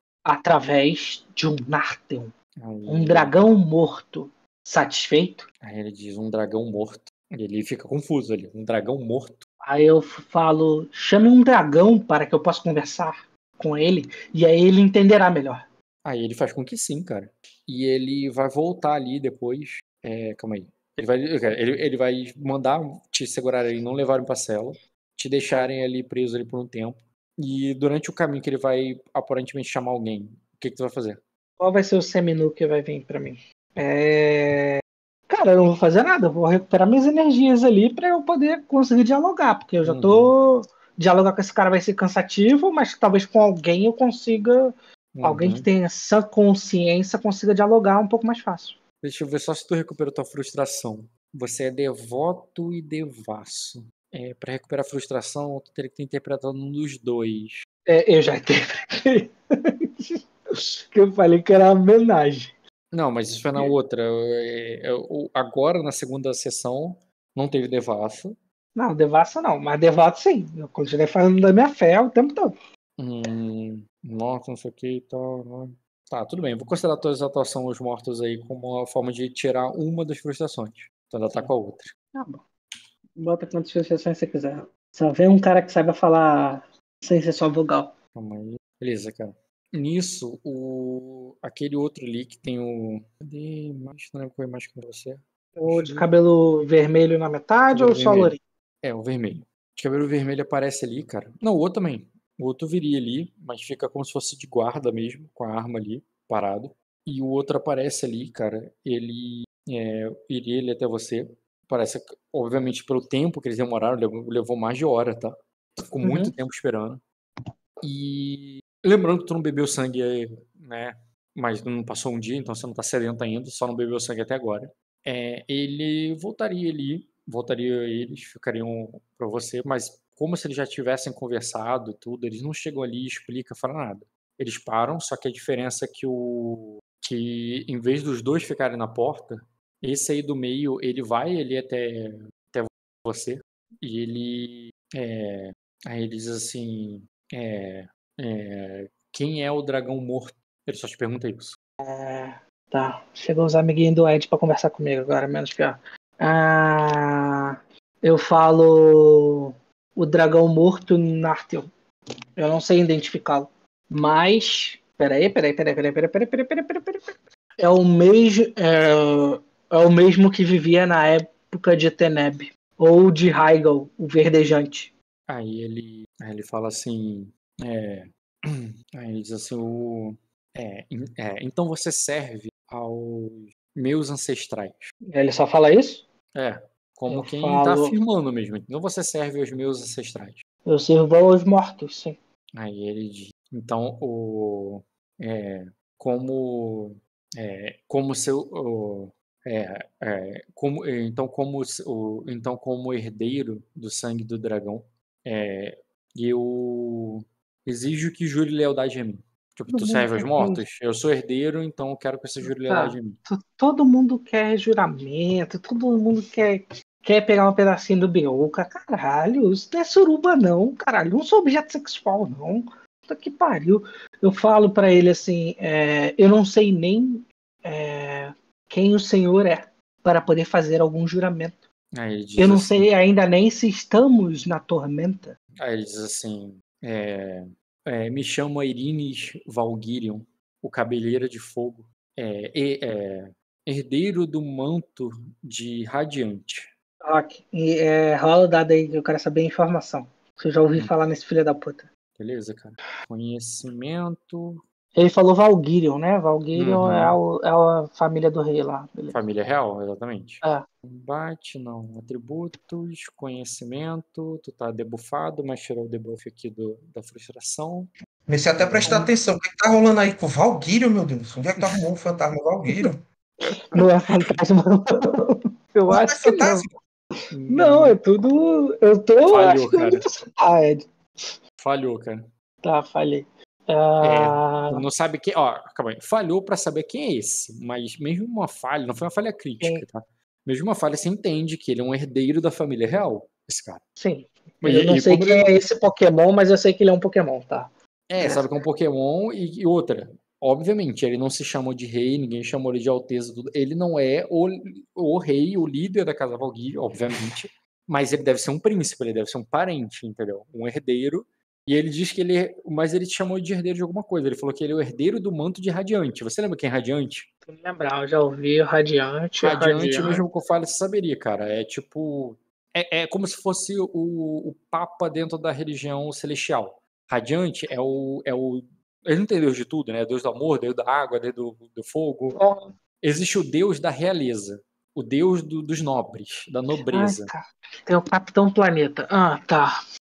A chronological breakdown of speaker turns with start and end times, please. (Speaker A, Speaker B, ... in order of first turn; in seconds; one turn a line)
Speaker A: 0.2-2.3
Speaker B: 2.6-3.4
Speaker A: 2.9-5.5
Speaker B: 5.6-9.4
Speaker A: 9.6-15.7
Speaker B: 16.1-31.2
Speaker A: 31.6-48.8
Speaker B: 39.8-40.3
Speaker B: 45.1-45.7
Speaker B: 49.0-57.6
Speaker A: 57.9-62.5
Speaker B: 62.9-68.4
Speaker A: 68.8-72.5
Speaker B: 73.0-81.9
Speaker A: 82.1-82.4
Speaker A: 83.2-87.9
Speaker B: 88.2-96.1
Speaker A: 95.6-98.4
Speaker B: 97.7-117.0
Speaker A: 116.0-116.3
Speaker B: 117.8-151.6
Speaker A: 151.8-161.7
Speaker A: 162.4-174.9
Speaker B: 175.3-184.9
Speaker A: 185.1-186.1
Speaker B: 186.3-190.4
Speaker A: 187.1-188.0
Speaker A: 190.7-192.2
Speaker B: 192.6-213.2
Speaker A: 209.7-210.7
Speaker A: 212.4-231.6
Speaker B: 232.0-232.9
Speaker A: 232.4-235.3
Speaker B: 235.6-246.7
Speaker A: 247.0-251.9
Speaker B: 252.2-254.6
Speaker A: 254.9-259.2
Speaker B: 256.5-257.2
Speaker B: 259.1-267.9
Speaker C: 268.3-273.0
Speaker B: 268.6-269.0
Speaker A: 273.5-276.7
Speaker C: 275.9-276.7
Speaker B: 277.3-278.0
Speaker A: 277.5-281.4
Speaker B: 279.3-280.0
Speaker B: 281.6-282.3
Speaker A: 282.6-284.8
Speaker B: 284.0-293.8
Speaker A: 294.0-298.5
Speaker B: 294.6-295.6
Speaker B: 298.1-317.3
Speaker A: 317.4-320.2
Speaker B: 319.4-332.4
Speaker A: 332.4-332.7
Speaker B: 333.0-337.3
Speaker A: 336.9-339.8